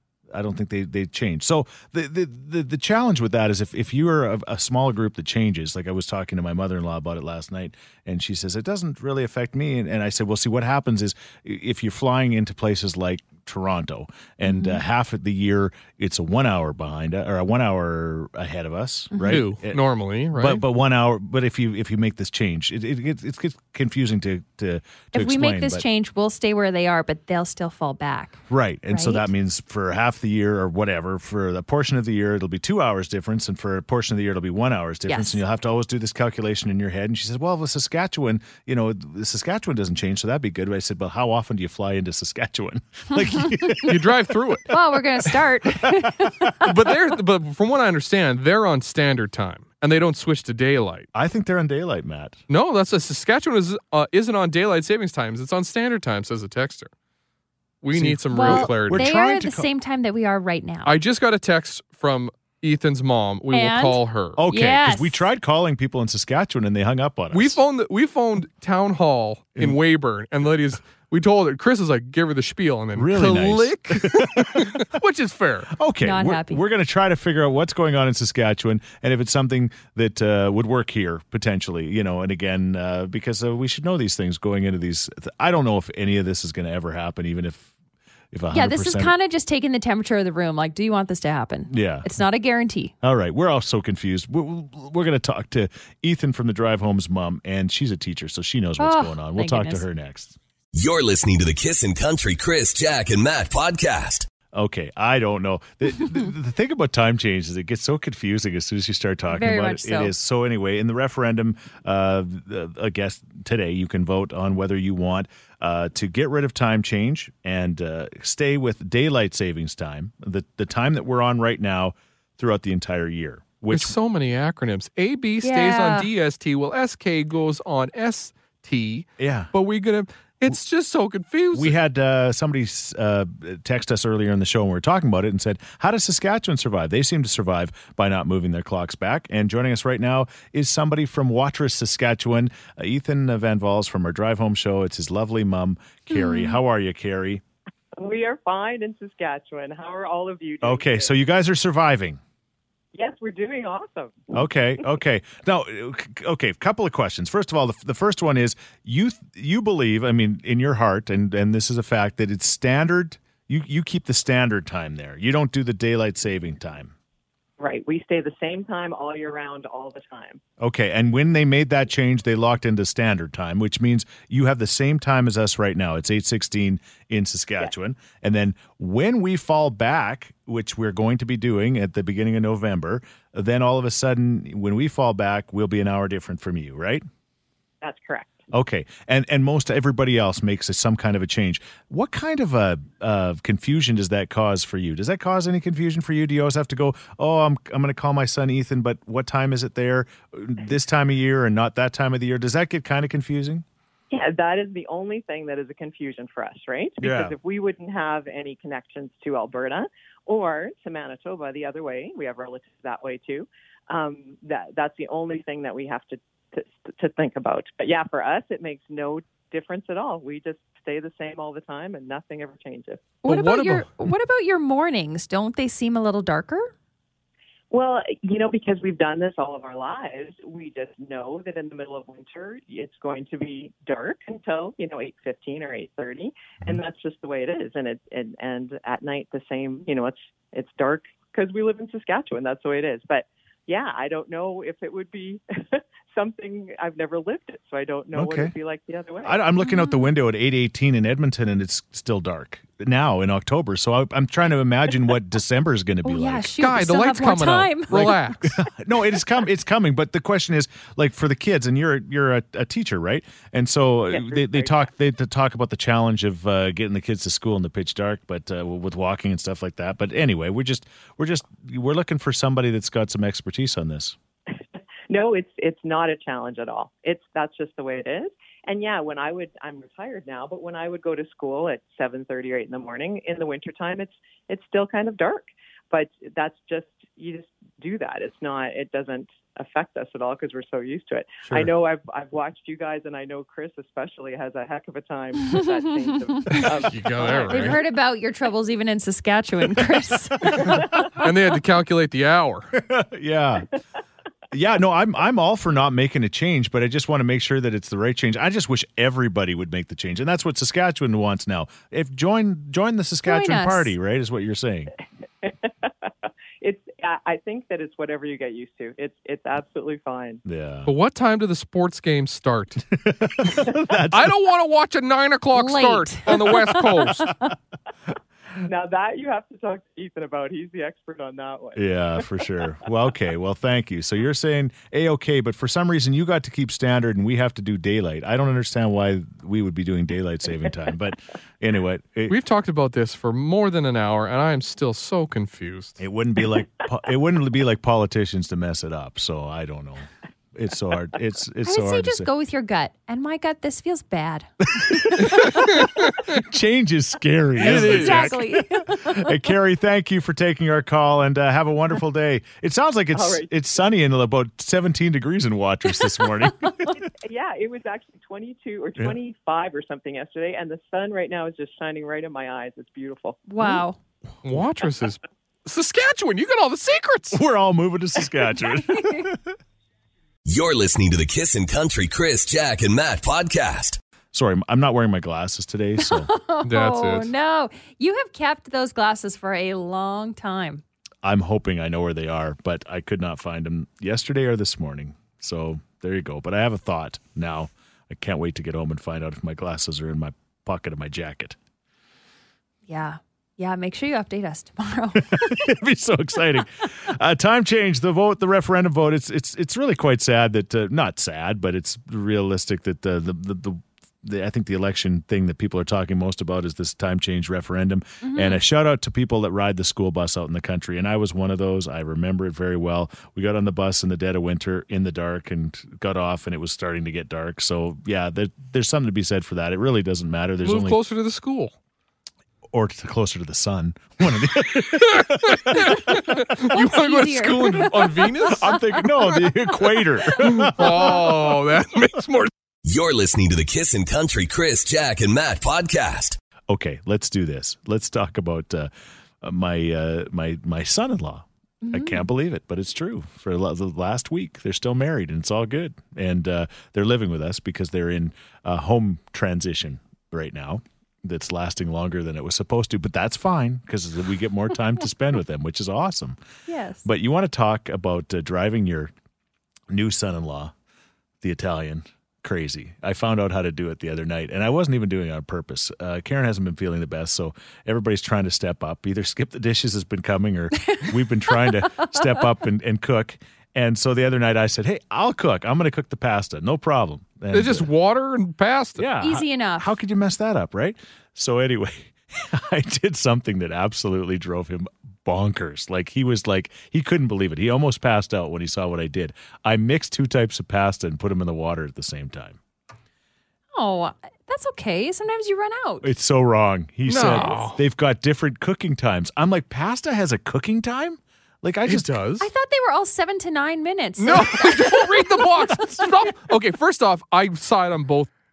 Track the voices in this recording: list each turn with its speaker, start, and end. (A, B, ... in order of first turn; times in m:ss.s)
0:00.3-0:19.8 A
0:14.4-0:14.8 B
0:19.1-0:19.4 B
0:19.3-0:20.6 C
0:20.3-0:25.8 A
0:25.1-0:28.4 B
0:28.5-0:44.2 A
0:28.9-0:29.3 B
0:35.1-0:35.4 B
0:43.8-0:44.7 C
0:44.7-0:46.7 B
0:45.8-0:46.3 A
0:46.6-0:51.1 C
0:51.1-0:52.4 A
0:52.5-0:56.9 C
0:57.8-0:59.1 C
0:57.9-0:59.7 A
0:58.3-1:00.9 B
1:00.8-1:04.4 C
1:03.5-1:05.2 B
1:04.4-1:07.6 A
1:07.3-1:15.8 C
1:12.9-1:14.8 A
1:15.8-1:27.7 A
1:16.0-1:16.6 B
1:28.3-1:29.1 A
1:28.5-1:32.9 B
1:31.7-1:32.1 A
1:33.0-1:40.4 A
1:38.8-1:39.8 B
1:40.7-1:44.3 D
1:44.5-2:04.0 A
1:49.3-1:50.1 B
2:03.7-2:11.7 C
2:05.4-2:06.1 B
2:09.2-2:09.5 A
2:11.5-2:27.4 A
2:26.1-2:26.6 B
2:28.0-2:31.1 E
2:30.6-2:32.2 A
2:32.9-2:34.3 E
2:34.3-2:46.9 A
2:47.6-2:50.4 E
2:50.6-3:07.0 A
3:07.8-3:08.4 E
3:08.5-3:23.6 A
3:24.1-3:43.1 E
3:27.0-3:27.4 A
3:43.2-3:46.7 B
3:43.2-3:43.9 C
3:47.7-4:09.4 E
4:08.1-4:08.5 A
4:09.2-4:16.5 A
4:09.6-4:10.0 B
4:16.0-4:18.4 B
4:16.6-4:18.5 C
4:17.9-4:34.2 A
4:24.1-4:24.8 E
4:35.1-4:57.8 E
4:56.3-4:56.6 B
4:56.5-4:57.8 C
4:57.5-5:00.8 B
5:00.6-5:02.8 C
5:02.8-5:03.7 A
5:04.5-5:14.9 A
5:13.2-5:13.9 B
5:15.4-5:20.4 E
5:20.4-5:20.9 A
5:20.9-5:22.9 C
5:23.0-5:24.4 A
5:24.1-5:27.3 C
5:25.5-5:27.5 B
5:28.6-5:31.8 E
5:31.7-5:42.4 A
5:42.3-5:46.0 C
5:46.0-5:52.3 A
5:51.6-5:55.5 B
5:54.6-6:07.0 A
5:55.3-5:56.2 C
5:57.6-5:58.4 C
5:57.6-5:59.4 B
6:03.1-6:03.5 E
6:07.0-6:13.4 E
6:13.5-6:14.0 B
6:14.4-6:17.4 C
6:17.3-6:19.4 A
6:18.8-6:19.3 B
6:20.4-6:24.0 D
6:24.3-6:26.3 A
6:26.0-6:30.8 B
6:26.6-6:27.3 C
6:31.2-6:41.6 A
6:42.9-6:45.6 B
6:45.2-7:11.0 A
6:58.2-6:58.6 B
7:10.6-7:11.7 C
7:12.7-7:16.4 A
7:14.9-7:19.5 C
7:16.3-7:18.2 B
7:18.4-7:21.6 A
7:20.2-7:22.5 C
7:22.8-7:26.4 D
7:26.7-7:28.9 A
7:29.4-7:46.4 A
7:31.8-7:32.2 B
7:46.7-7:47.1 B
7:47.0-7:49.1 A
7:49.9-7:50.7 A
7:51.4-8:07.9 A
8:07.5-8:09.1 C
8:09.0-8:22.6 A
8:09.2-8:09.9 B
8:23.7-8:26.1 B
8:26.0-8:32.2 A
8:27.1-8:27.8 C
8:27.2-8:27.7 B
8:31.9-8:32.5 C
8:32.4-8:35.7 B
8:34.2-8:38.3 C